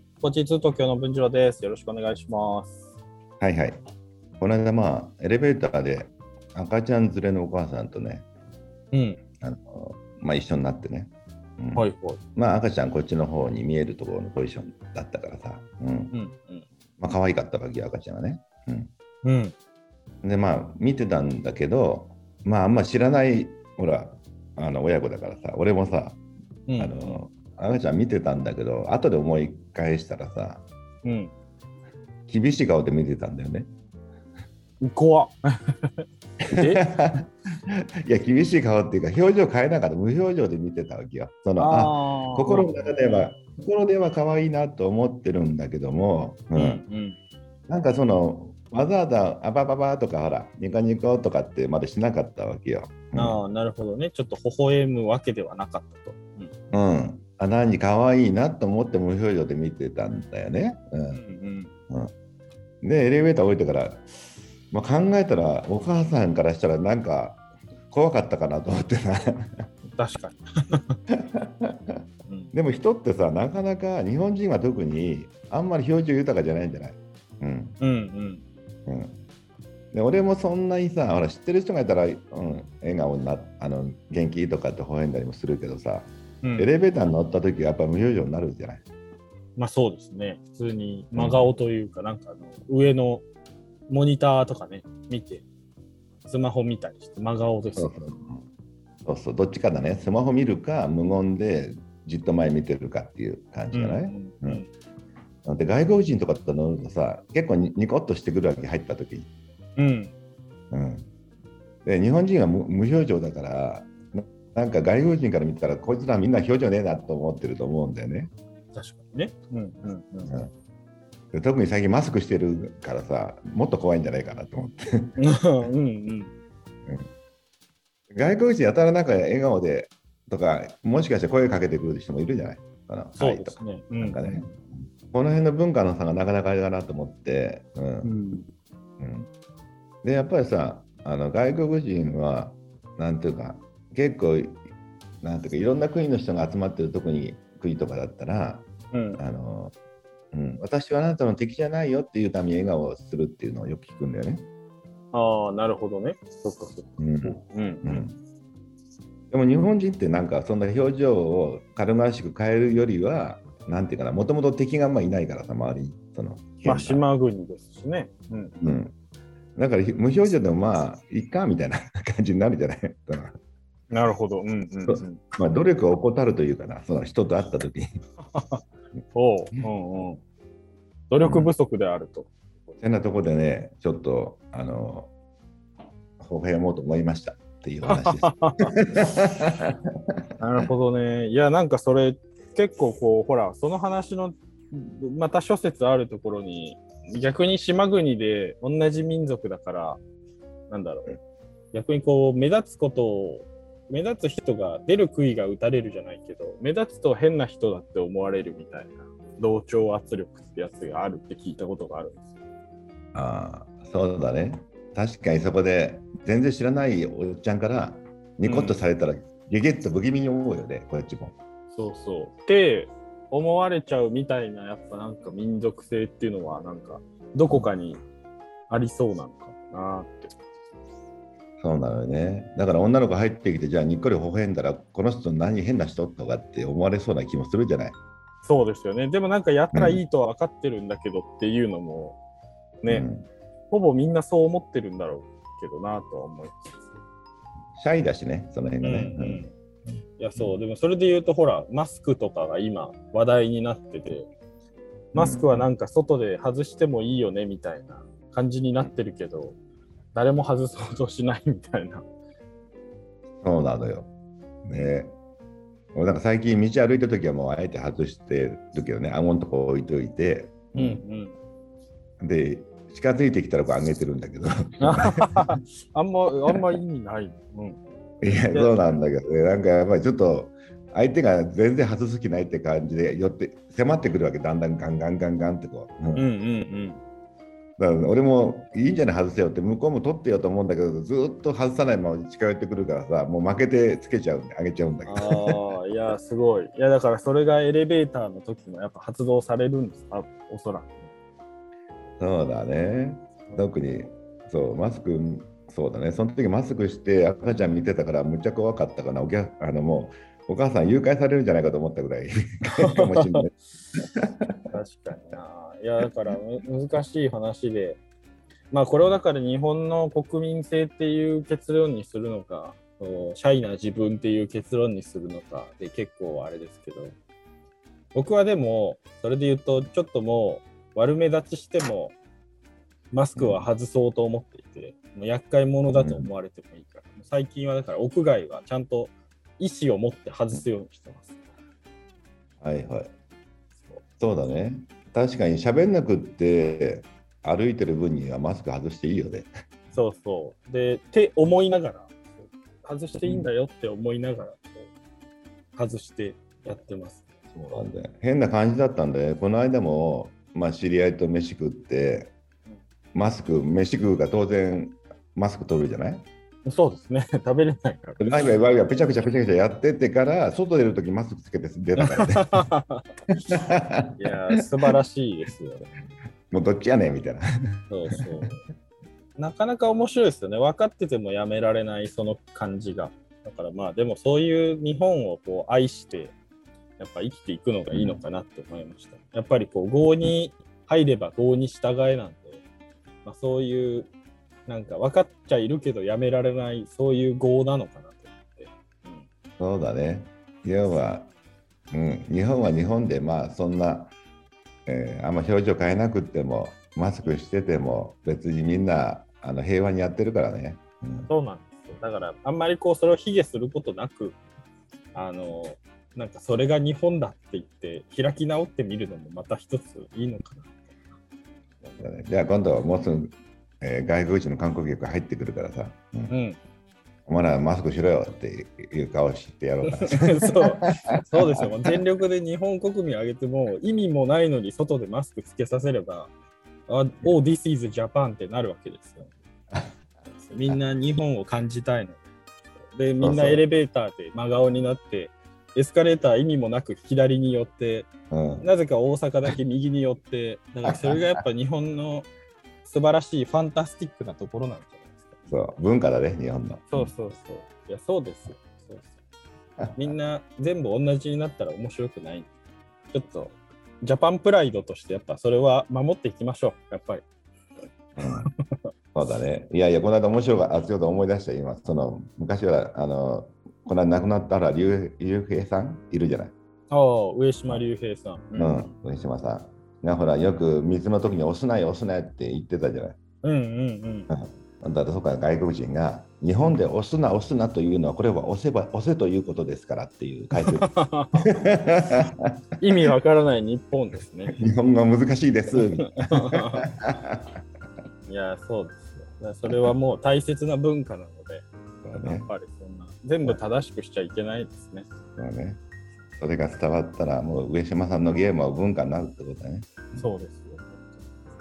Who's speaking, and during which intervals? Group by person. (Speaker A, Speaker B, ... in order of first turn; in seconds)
Speaker A: 0.2-2.9, 8.9-9.2, 11.8-12.2, 16.1-16.7, 19.2-19.5, 26.7-27.2, 31.0-31.3, 34.8-36.8, 41.6-42.8, 46.5-47.2, 53.1-56.5, 61.1-61.7, 70.0-71.0, 72.3-72.5, 77.8-78.4, 86.4-86.7, 89.6-93.2, 93.9-95.5, 96.3-97.9, 103.7-104.7, 109.8-110.1, 118.7-120.3, 125.2-126.3, 133.2-134.2, 138.0-138.5, 148.9-149.2, 155.1-158.0, 166.7-168.6, 173.9-175.2, 178.3-180.2, 181.1-182.3, 187.9-188.8, 190.4-200.0, 200.7-201.2, 201.7-212.3, 218.4-218.8, 221.7-228.0, 228.7-230.3, 238.4-242.2, 242.8-243.1, 243.7-246.9, 248.8-249.5, 250.2-254.3, 255.1-259.6, 260.1-262.1, 270.8-271.4, 274.8-278.8, 286.2-287.0, 295.1-301.1, 312.8-313.5, 314.7-318.0, 318.7-327.2, 328.1-332.2, 333.1-341.3, 349.9-354.9, 355.8-357.2, 366.6-368.2, 372.0-373.0, 374.2-375.9, 377.9-378.6, 379.4-386.4, 387.0-392.6, 393.2-394.1, 394.7-399.3, 411.3-414.4, 415.1-420.8, 426.3-426.6, 429.9-436.3, 436.9-439.3, 440.4-442.3, 442.9-448.1, 448.6-452.3, 452.8-455.3, 456.9-459.2, 460.0-462.5, 463.1-467.2, 476.9-478.9, 483.4-484.3, 490.6-491.5, 492.8-494.6, 496.0-496.9, 498.3-501.7, 502.2-505.1, 510.1-511.3
Speaker B: 3.4-3.8, 4.4-8.3, 9.4-16.1, 17.0-18.9, 20.2-26.2, 26.8-30.6, 32.3-33.7, 36.5-46.8, 47.7-53.4, 56.7-61.2, 62.8-64.1, 64.7-69.7, 71.2-72.0, 72.5-77.8, 78.9-79.2, 79.9-88.8, 91.2-91.5, 97.8-98.5, 99.0-104.6, 105.5-109.3, 110.7-111.1, 111.8-118.3, 121.3-125.2, 128.1-138.1, 139.0-139.3, 140.0-144.6, 145.2-148.7, 149.2-149.8, 150.3-154.5, 157.0-158.2, 159.3-167.0, 168.6-168.9, 169.6-173.4, 174.9-177.9, 181.2-181.5, 182.8-185.1, 186.2-189.7, 213.1-221.4, 231.6-238.0, 239.7-240.0, 242.9-243.3, 247.8-249.4, 255.2-255.7, 263.4-264.1, 264.6-265.2, 265.9-271.0, 272.2-275.4, 278.2-286.3, 287.8-295.6, 302.2-313.5, 314.2-314.7, 333.4-333.7, 335.9-336.3, 342.6-343.1, 344.2-349.5, 353.2-353.5, 357.5-362.3, 363.1-366.3, 368.2-372.6, 373.5-374.2, 376.5-378.2, 387.9-388.2, 399.6-401.3, 401.9-404.1, 404.9-411.3, 421.8-426.3, 427.3-430.8, 443.2-443.6, 448.3-448.7, 450.9-451.1, 455.5-457.1, 459.8-460.1, 468.2-468.5, 469.1-476.5, 478.6-483.2, 484.3-490.9, 491.5-492.3, 494.5-497.6, 502.0-502.5, 505.4-505.8, 506.4-510.3